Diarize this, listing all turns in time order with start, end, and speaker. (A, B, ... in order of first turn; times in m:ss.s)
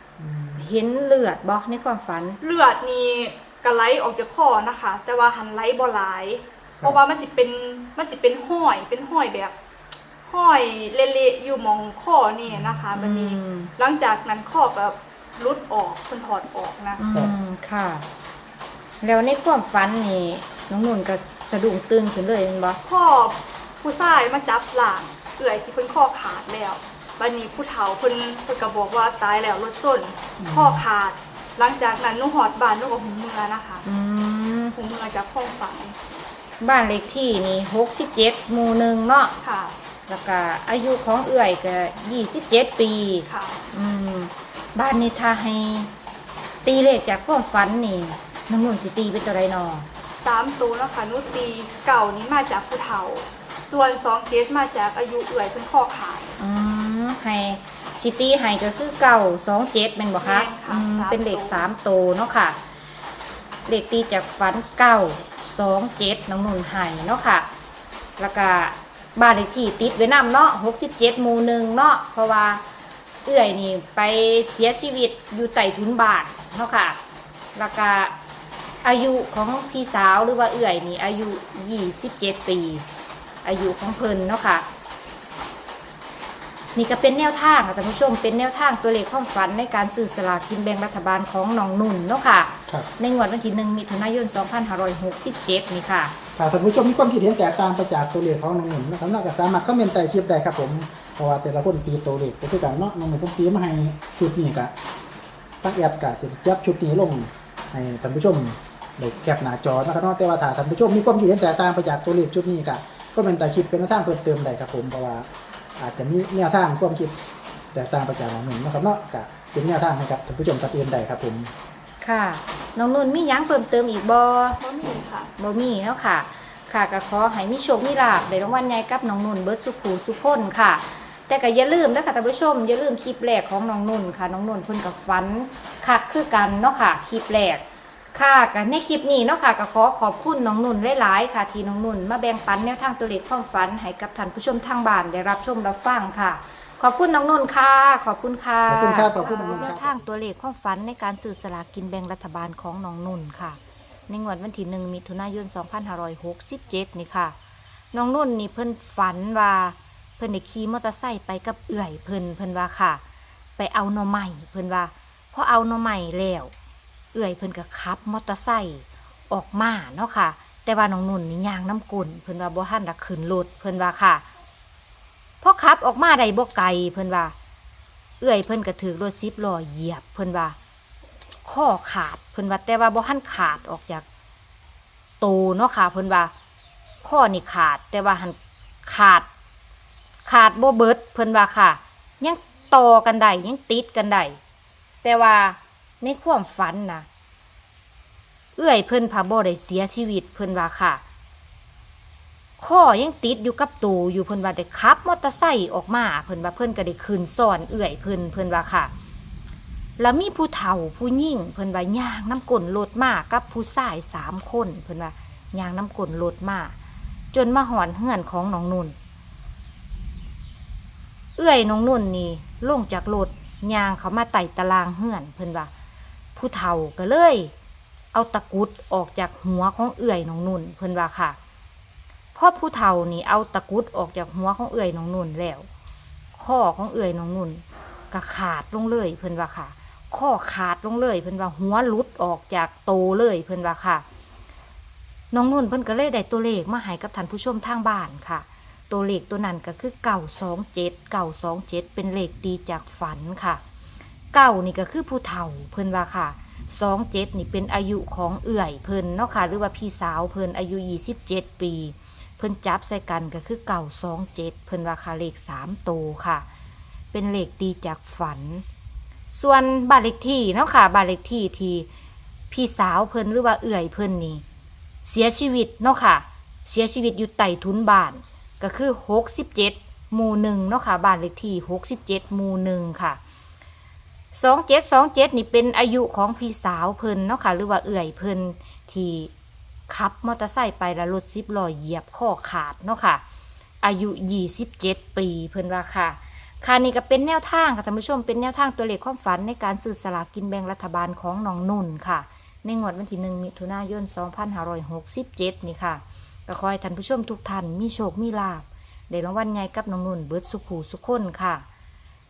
0:00.2-0:00.6 A
0:00.6-0:02.4 B
0:02.4-0:09.5 C
0:10.3-0:17.0 C
0:12.5-0:12.8 A
0:12.9-0:13.7 B
0:17.0-0:18.0 B
0:19.0-0:22.8 B
0:22.8-0:33.8 C
0:30.4-0:30.8 A
0:33.8-0:34.7 B
0:34.7-0:35.9 C
0:36.6-0:39.3 B
0:39.4-0:39.8 C
0:40.1-0:45.9 B
0:43.3-0:43.6 C
0:46.6-0:49.9 B
0:50.2-0:56.3 C
0:56.4-1:02.6 B
1:00.2-1:01.6 C
1:03.6-1:07.5 B
1:08.2-1:12.6 B
1:13.2-1:17.0 B
1:17.5-1:18.1 B
1:18.8-1:22.8 B
1:23.4-1:24.6 B
1:26.8-1:36.1 B
1:36.4-1:44.7 A
1:45.6-1:57.2 A
1:57.7-2:01.5 A
2:02.0-2:04.6 B
2:04.6-2:05.3 C
2:05.4-2:37.3 B
2:28.7-2:29.9 A
2:29.1-2:29.7 C
2:37.9-2:43.0 B
2:43.6-2:46.5 B
2:47.1-2:54.2 B
2:55.4-2:57.3 B
2:58.2-3:00.6 B
3:01.4-3:04.0 B
3:05.2-3:06.3 B
3:07.0-3:09.3 B
3:10.2-3:14.4 B
3:15.0-3:17.0 B
3:18.6-3:21.0 B
3:22.6-3:28.9 B
3:30.0-3:36.7 B
3:37.3-3:38.9 B
3:41.4-3:45.7 B
3:46.3-3:47.5 B
3:48.1-3:51.4 B
3:52.3-3:55.6 B
3:56.3-4:04.0 B
4:05.3-4:13.6 B
4:14.3-4:26.4 B
4:27.1-4:28.6 B
4:29.3-4:31.9 B
4:32.5-4:34.4 B
4:35.0-4:43.2 B
4:44.3-4:49.3 B
4:49.9-4:53.2 B
4:53.8-5:11.6 B